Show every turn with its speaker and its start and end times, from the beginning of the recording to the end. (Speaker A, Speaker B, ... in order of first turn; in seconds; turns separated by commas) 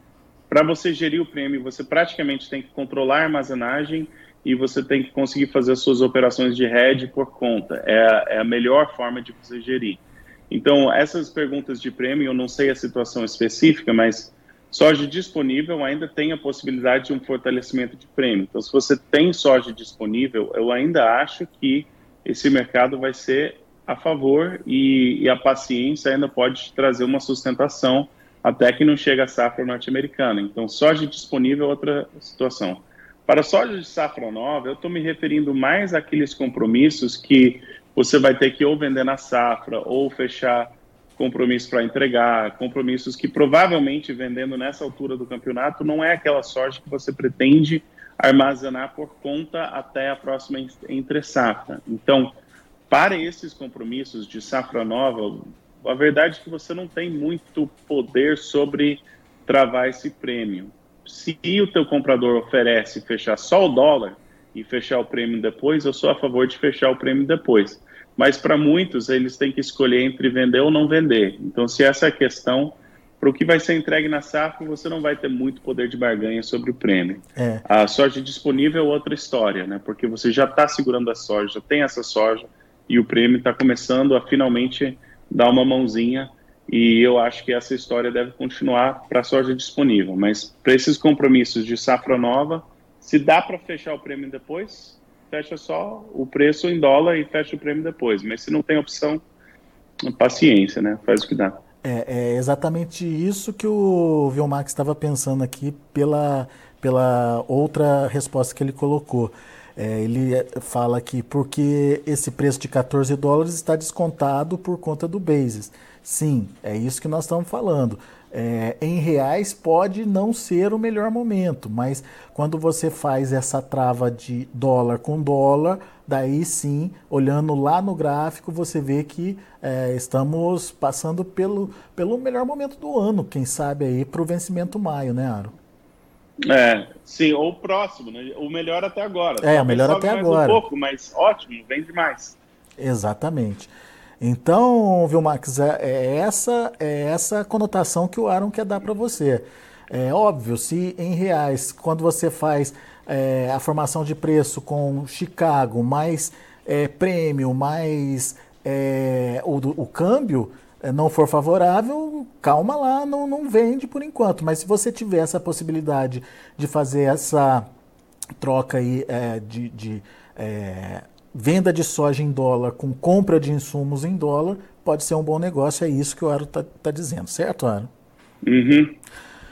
Speaker A: 0.5-52.4, Speaker A: 52.9-99.2, Speaker B: 77.4-77.6, Speaker A: 100.1-101.6, Speaker B: 101.8-135.6, Speaker A: 136.5-142.4, Speaker B: 139.4-140.6, Speaker B: 142.8-167.7, Speaker B: 168.4-177.9, Speaker A: 178.4-179.0